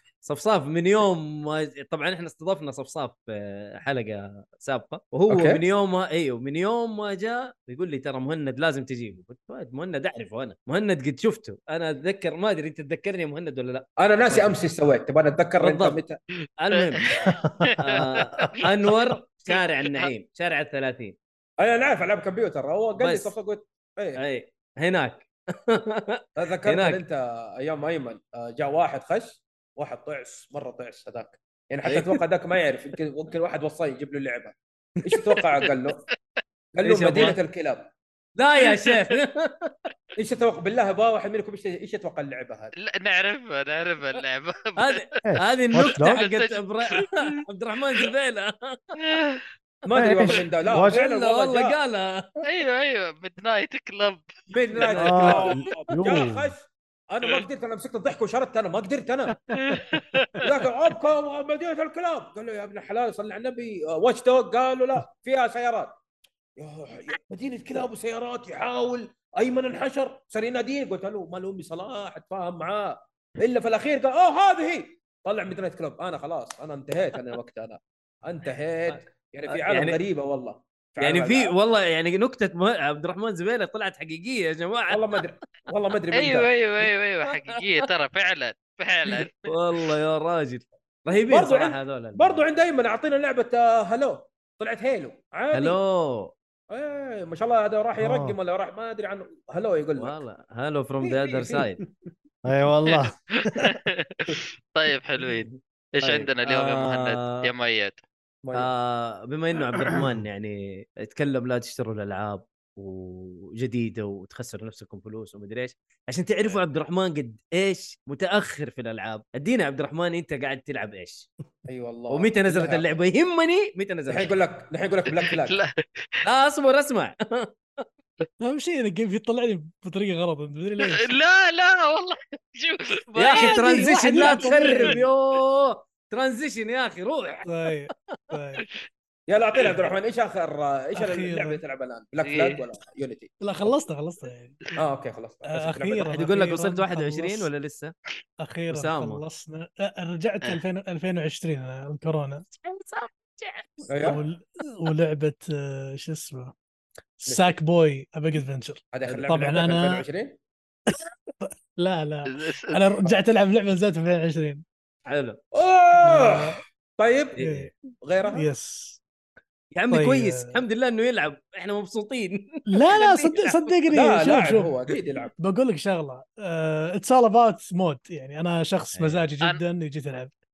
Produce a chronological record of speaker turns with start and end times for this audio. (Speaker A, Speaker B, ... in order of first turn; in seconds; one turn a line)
Speaker A: 0.2-14.6
Speaker B: 5.3-5.6
Speaker B: 14.0-16.2
Speaker A: 15.6-16.0
Speaker A: 16.6-21.1
Speaker C: 16.7-18.2
Speaker D: 17.2-18.5
Speaker C: 19.5-20.1
Speaker B: 21.6-24.2
Speaker A: 23.0-23.3
Speaker A: 24.1-27.0
Speaker B: 26.4-36.0
Speaker A: 31.9-32.2
Speaker B: 36.7-37.9
Speaker A: 36.8-37.4
Speaker A: 38.4-39.9
Speaker B: 40.1-42.7
Speaker C: 42.8-45.2
Speaker A: 44.8-49.0
Speaker D: 45.2-46.2
Speaker C: 45.7-47.3
Speaker C: 49.0-49.4
Speaker B: 49.8-51.8
Speaker D: 49.9-51.0
Speaker A: 50.7-52.4
Speaker C: 52.4-54.2
Speaker B: 54.5-59.4
Speaker A: 54.7-55.4
Speaker D: 55.0-56.5
Speaker C: 59.6-60.4
Speaker B: 60.4-66.0
Speaker B: 66.6-81.5
Speaker A: 78.9-80.0
Speaker A: 81.0-85.0
Speaker B: 84.9-86.5
Speaker C: 86.1-89.9
Speaker A: 87.3-87.8
Speaker A: 89.1-92.4
Speaker B: 91.2-95.8
Speaker A: 95.5-96.3
Speaker B: 96.7-100.2
Speaker D: 98.0-98.4
Speaker A: 100.0-101.8
Speaker B: 101.0-101.7
Speaker D: 102.4-103.8
Speaker C: 102.9-108.0
Speaker A: 105.5-107.5
Speaker B: 108.4-108.7
Speaker A: 108.5-121.3
Speaker B: 121.7-122.8
Speaker A: 122.1-124.3
Speaker B: 124.1-125.6
Speaker C: 125.1-126.2
Speaker A: 126.2-127.8
Speaker E: 128.4-131.2
Speaker C: 130.8-134.4
Speaker A: 133.2-137.5
Speaker E: 133.3-135.0
Speaker E: 137.4-138.6
Speaker B: 139.3-143.3
Speaker E: 140.9-141.6
Speaker C: 142.2-142.7
Speaker E: 143.4-144.7
Speaker B: 144.8-146.2
Speaker E: 145.4-147.5
Speaker A: 146.1-147.9
Speaker E: 148.4-152.4
Speaker A: 148.7-149.2
Speaker A: 152.6-153.9
Speaker B: 153.9-154.2
Speaker E: 154.0-156.5
Speaker E: 157.2-160.1
Speaker B: 157.3-157.5
Speaker B: 158.9-160.4
Speaker E: 160.9-164.6
Speaker C: 162.3-162.8
Speaker A: 165.1-165.4
Speaker B: 165.5-167.4
Speaker E: 166.0-166.6
Speaker A: 167.3-167.7
Speaker E: 167.4-167.7
Speaker B: 168.0-168.5
Speaker E: 168.3-169.0
Speaker A: 169.7-173.7
Speaker E: 169.9-170.6
Speaker E: 172.7-174.7
Speaker B: 173.9-175.3
Speaker E: 175.4-180.3
Speaker A: 178.9-179.2